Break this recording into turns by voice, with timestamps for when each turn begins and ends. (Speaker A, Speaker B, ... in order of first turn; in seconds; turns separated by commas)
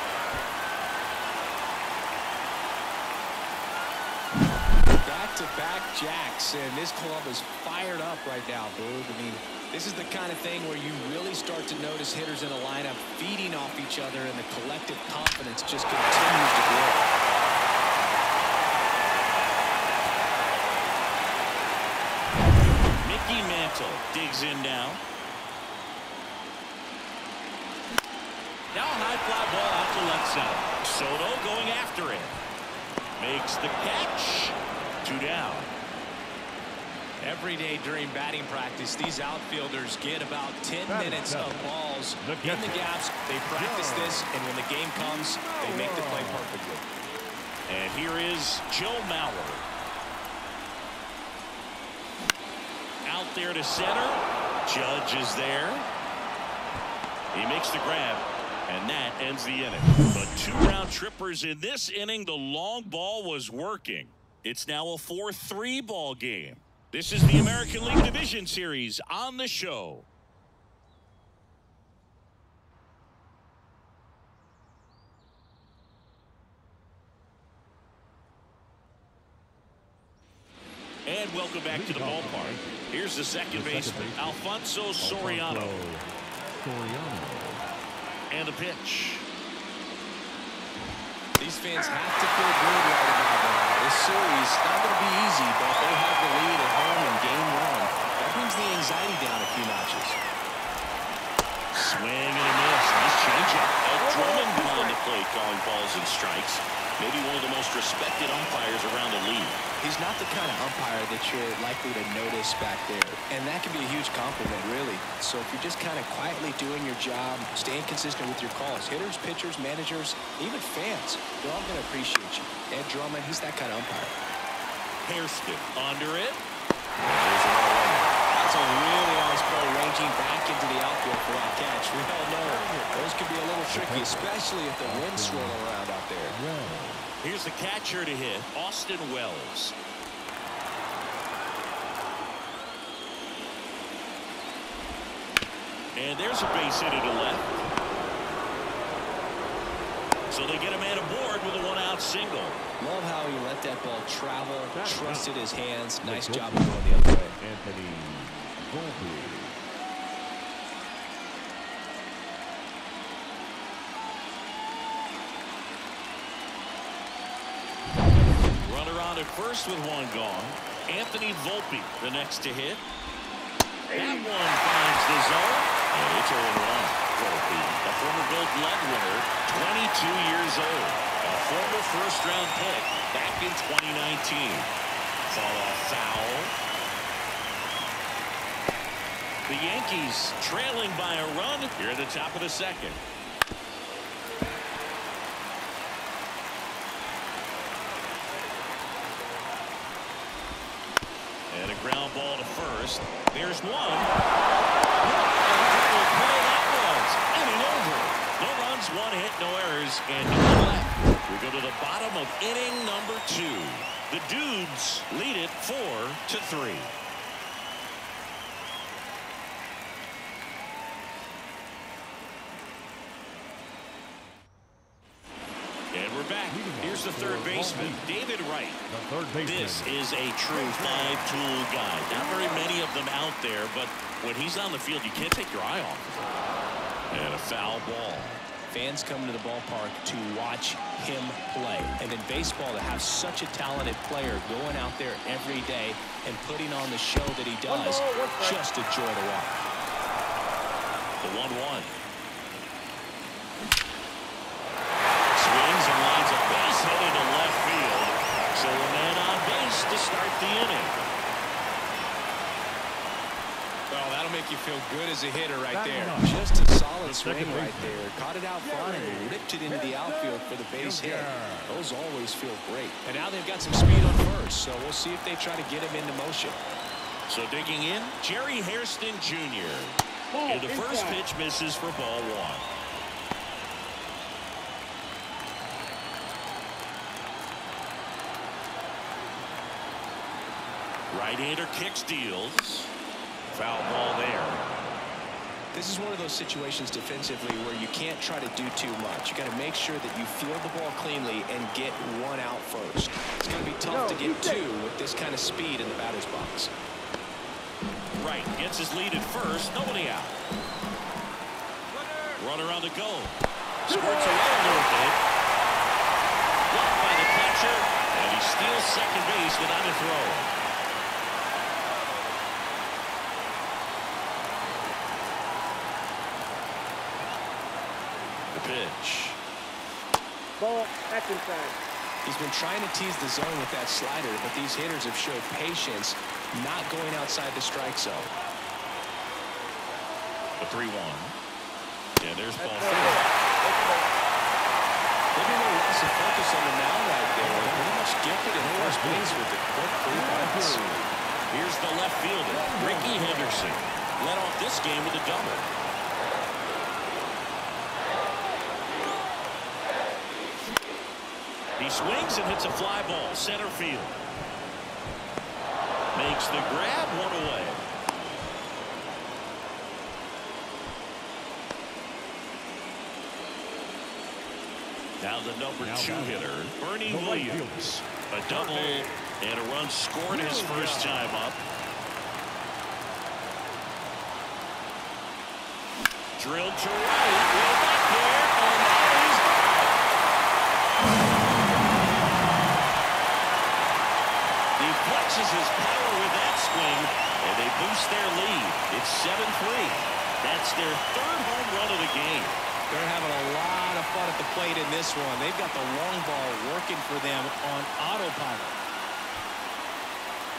Speaker A: 5.0-17.1, Speaker B: 23.0-25.0, Speaker B: 28.7-32.4, Speaker B: 33.2-35.7, Speaker A: 37.2-46.9, Speaker C: 40.9-42.9, Speaker C: 43.5-44.3, Speaker C: 45.2-46.5, Speaker B: 47.7-49.6, Speaker B: 53.0-55.9, Speaker B: 57.3-70.1, Speaker B: 81.1-85.8, Speaker C: 81.7-82.7, Speaker C: 83.5-84.4, Speaker C: 85.0-87.6, Speaker B: 88.3-89.2, Speaker A: 91.4-100.2, Speaker B: 101.7-109.6, Speaker D: 104.0-105.0, Speaker A: 109.8-124.1, Speaker B: 125.0-126.4, Speaker B: 127.0-128.1, Speaker A: 128.3-136.4, Speaker C: 132.4-133.1, Speaker C: 133.6-135.7, Speaker C: 136.2-137.1, Speaker B: 137.2-139.8, Speaker B: 145.9-147.7, Speaker B: 150.3-152.6, Speaker A: 152.8-157.4, Speaker C: 154.7-155.4, Speaker C: 156.0-159.6, Speaker B: 168.6-172.8, Speaker D: 173.9-174.3, Speaker B: 173.9-184.7, Speaker B: 185.3-186.5, Speaker B: 189.5-193.0, Speaker B: 201.5-204.1, Speaker B: 205.0-216.9, Speaker B: 225.9-228.8, Speaker C: 226.5-228.1, Speaker C: 228.9-230.0, Speaker B: 229.4-236.3, Speaker C: 230.5-231.4, Speaker B: 237.1-238.4, Speaker A: 238.7-249.6, Speaker D: 247.7-248.6, Speaker B: 251.2-251.9, Speaker B: 255.3-261.1, Speaker A: 263.9-276.6, Speaker C: 265.7-268.0, Speaker C: 268.6-271.8, Speaker B: 277.3-282.6, Speaker D: 280.3-281.2, Speaker B: 291.1-292.9, Speaker B: 293.5-294.6, Speaker A: 295.7-306.7, Speaker D: 303.9-304.7, Speaker B: 308.2-310.4, Speaker B: 312.4-315.2, Speaker D: 313.9-314.9, Speaker B: 316.7-320.5, Speaker B: 328.5-329.4, Speaker D: 330.6-331.8, Speaker A: 332.2-338.3, Speaker B: 340.6-341.4, Speaker B: 342.2-343.2, Speaker D: 342.6-344.1, Speaker A: 345.3-351.0, Speaker C: 347.4-348.0, Speaker C: 348.5-349.5, Speaker C: 350.1-351.0, Speaker B: 351.5-355.7, Speaker C: 352.5-353.8, Speaker B: 361.8-364.2, Speaker B: 366.1-367.9, Speaker B: 375.2-381.6, Speaker C: 375.8-376.5, Speaker C: 377.1-379.1, Speaker C: 380.6-381.0, Speaker B: 386.4-389.9, Speaker B: 394.8-402.6, Speaker A: 402.9-408.8